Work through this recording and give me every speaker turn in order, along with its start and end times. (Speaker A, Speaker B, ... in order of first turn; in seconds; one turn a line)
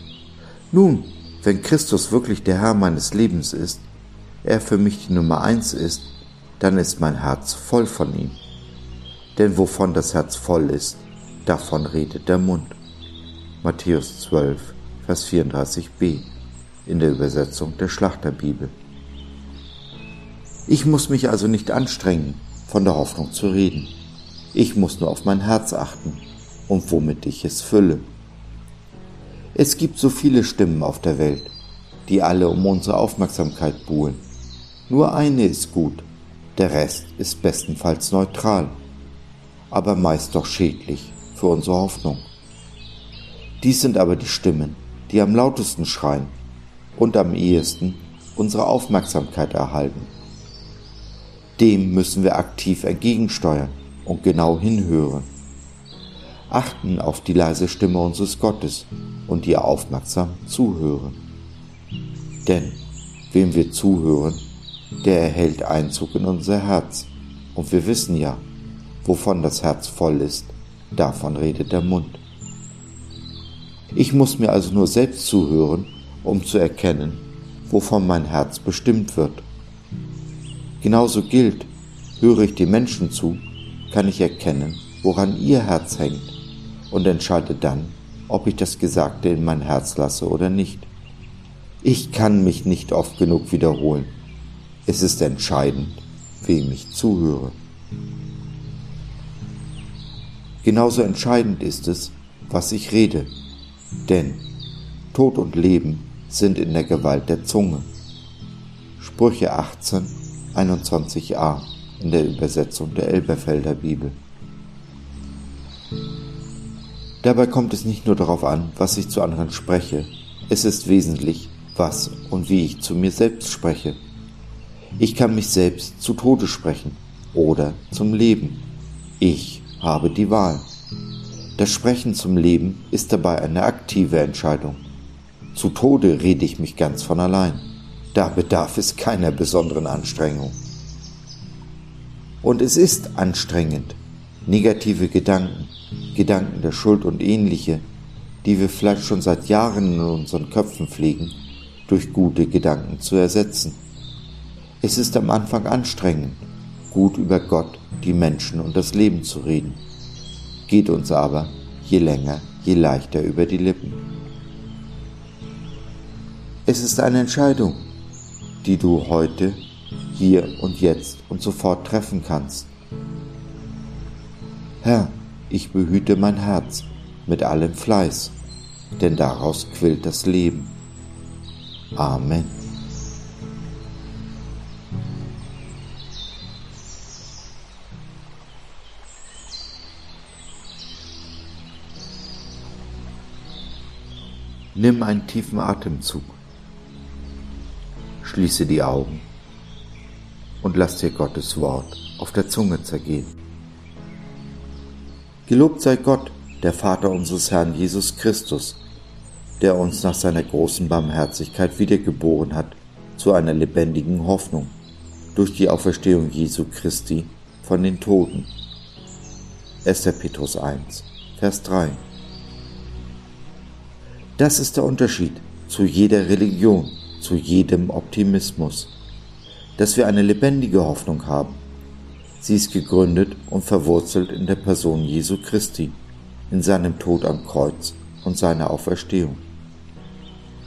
Speaker A: 0.7-3.9
Speaker A: 4.4-8.4
Speaker A: 9.3-12.8
Speaker A: 13.6-16.3
Speaker A: 16.8-18.8
Speaker A: 20.7-24.0
Speaker A: 24.5-28.1
Speaker A: 29.5-31.5
Speaker A: 32.0-34.3
Speaker A: 34.9-38.8
Speaker A: 39.7-42.3
Speaker A: 43.6-46.4
Speaker A: 47.0-50.1
Speaker A: 51.6-55.3
Speaker A: 56.5-61.2
Speaker A: 62.4-64.5
Speaker A: 65.0-68.5
Speaker A: 69.0-72.2
Speaker A: 73.9-79.5
Speaker A: 80.8-86.4
Speaker A: 86.9-90.9
Speaker A: 91.8-94.2
Speaker A: 94.8-97.6
Speaker A: 100.6-103.3
Speaker A: 104.0-104.5
Speaker A: 105.1-107.9
Speaker A: 109.0-114.2
Speaker A: 117.2-124.0
Speaker A: 125.0-128.6
Speaker A: 129.2-130.7
Speaker A: 131.6-134.8
Speaker A: 135.5-140.6
Speaker A: 142.4-147.9
Speaker A: 148.4-153.8
Speaker A: 154.8-159.8
Speaker A: 160.7-164.0
Speaker A: 166.7-167.9
Speaker A: 168.6-172.7
Speaker A: 174.8-178.4
Speaker A: 179.0-180.8
Speaker A: 181.9-182.6
Speaker A: 194.7-196.4
Speaker A: 198.2-199.3
Speaker A: 200.6-203.3
Speaker A: 205.5-208.8
Speaker A: 209.6-214.8
Speaker A: 215.3-218.5
Speaker A: 219.8-222.0
Speaker A: 224.4-228.9
Speaker A: 229.8-231.6
Speaker A: 232.4-239.4